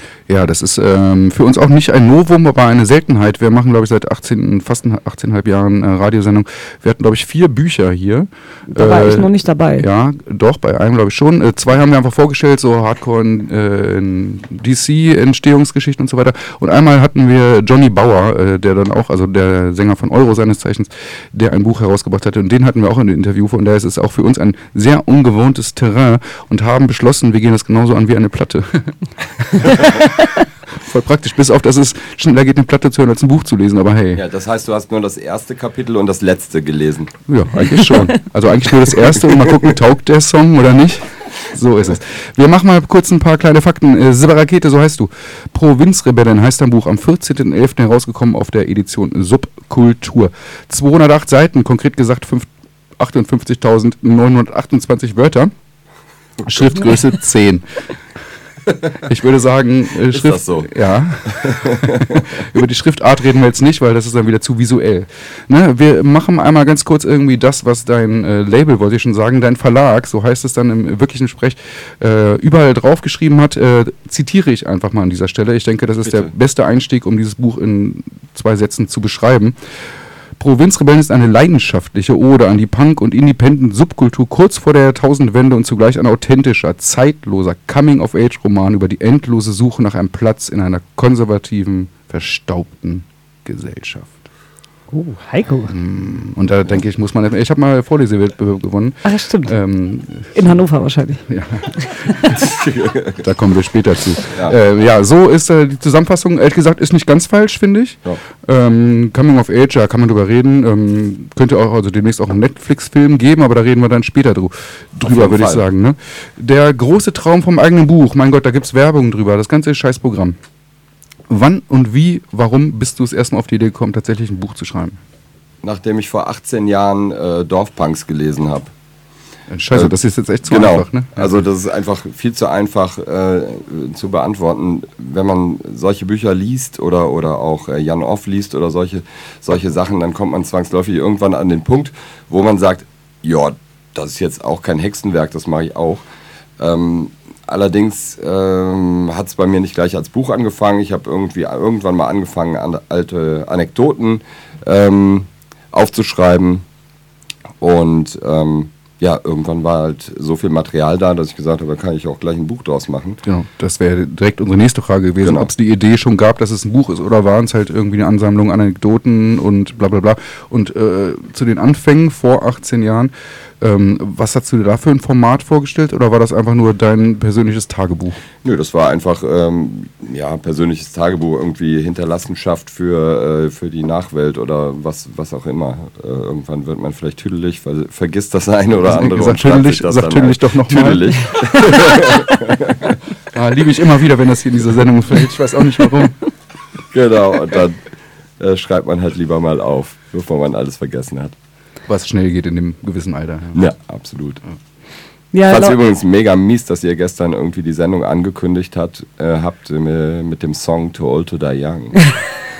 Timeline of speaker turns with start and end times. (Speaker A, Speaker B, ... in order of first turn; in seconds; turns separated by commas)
Speaker A: 0.3-28.9, Speaker B: 8.7-9.8, Speaker A: 29.5-29.9, Speaker A: 30.8-34.2, Speaker C: 34.1-37.1, Speaker A: 37.3-55.5, Speaker C: 56.4-56.9, Speaker A: 56.5-57.8, Speaker A: 59.0-79.6, Speaker C: 60.1-60.7, Speaker C: 61.3-62.2, Speaker A: 80.4-94.1, Speaker B: 94.9-95.7, Speaker A: 95.7-100.6, Speaker B: 99.0-99.5, Speaker B: 100.3-101.2, Speaker A: 101.3-102.4, Speaker C: 102.4-103.2, Speaker A: 103.2-120.4, Speaker C: 104.3-104.5, Speaker C: 115.0-115.6, Speaker A: 121.3-125.0, Speaker C: 125.6-128.7, Speaker A: 129.5-131.4, Speaker C: 129.7-146.0, Speaker C: 146.6-156.6, Speaker C: 157.6-163.2, Speaker A: 163.2-178.2, Speaker C: 165.2-165.5, Speaker C: 178.4-192.9, Speaker A: 188.8-191.9, Speaker A: 193.3-196.1, Speaker C: 196.9-197.8, Speaker C: 198.4-201.3, Speaker A: 201.9-203.6, Speaker C: 203.5-204.4, Speaker B: 205.3-205.8, Speaker C: 205.4-212.1